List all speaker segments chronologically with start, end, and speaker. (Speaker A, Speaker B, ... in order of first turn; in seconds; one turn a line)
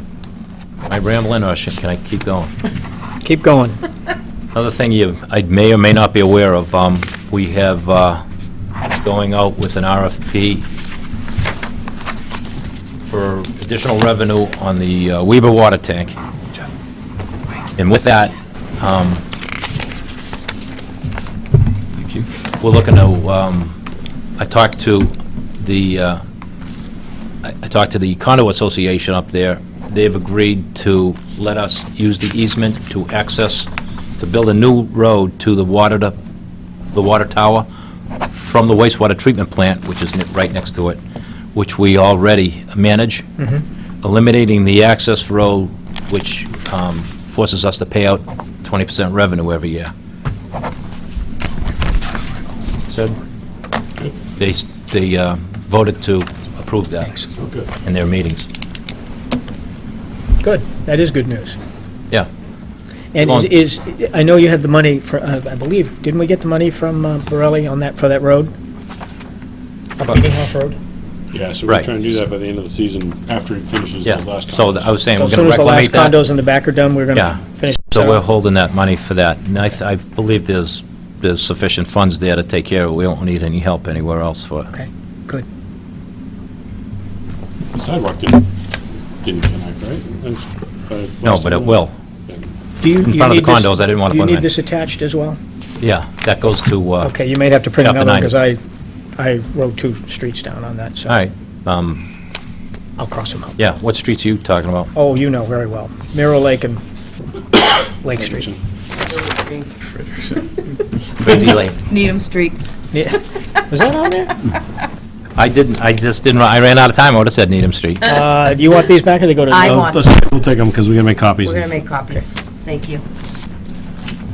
Speaker A: 0.9-2.5
Speaker B: 3.2-3.8
Speaker A: 4.5-8.2
Speaker A: 8.9-10.7
Speaker A: 13.1-16.2
Speaker A: 17.8-19.2
Speaker A: 22.6-23.8
Speaker A: 24.4-26.2
Speaker A: 27.4-33.7
Speaker A: 34.2-36.2
Speaker A: 36.9-37.7
Speaker A: 38.3-41.0
Speaker A: 41.5-43.2
Speaker B: 43.4-43.6
Speaker A: 44.0-49.9
Speaker A: 52.9-53.2
Speaker A: 54.4-57.3
Speaker C: 57.4-57.7
Speaker A: 57.8-58.5
Speaker B: 60.4-61.6
Speaker B: 63.1-68.5
Speaker A: 63.2-63.5
Speaker B: 70.0-70.8
Speaker C: 71.3-74.9
Speaker A: 71.7-71.9
Speaker A: 74.0-76.2
Speaker B: 75.2-78.2
Speaker A: 77.1-84.7
Speaker B: 84.7-85.5
Speaker C: 87.7-88.5
Speaker C: 89.2-92.5
Speaker A: 91.2-91.9
Speaker B: 92.8-95.4
Speaker A: 93.0-94.5
Speaker A: 95.8-97.1
Speaker B: 97.0-98.6
Speaker A: 97.8-98.3
Speaker B: 99.2-101.2
Speaker A: 101.1-102.1
Speaker B: 103.0-103.6
Speaker A: 103.6-104.9
Speaker B: 105.0-106.8
Speaker B: 108.0-108.5
Speaker C: 108.2-108.6
Speaker D: 109.1-109.7
Speaker A: 111.2-111.8
Speaker D: 111.9-112.6
Speaker B: 112.9-114.4
Speaker A: 115.4-118.1
Speaker B: 118.0-119.8
Speaker D: 119.5-120.0
Speaker C: 119.6-121.8
Speaker D: 121.5-123.0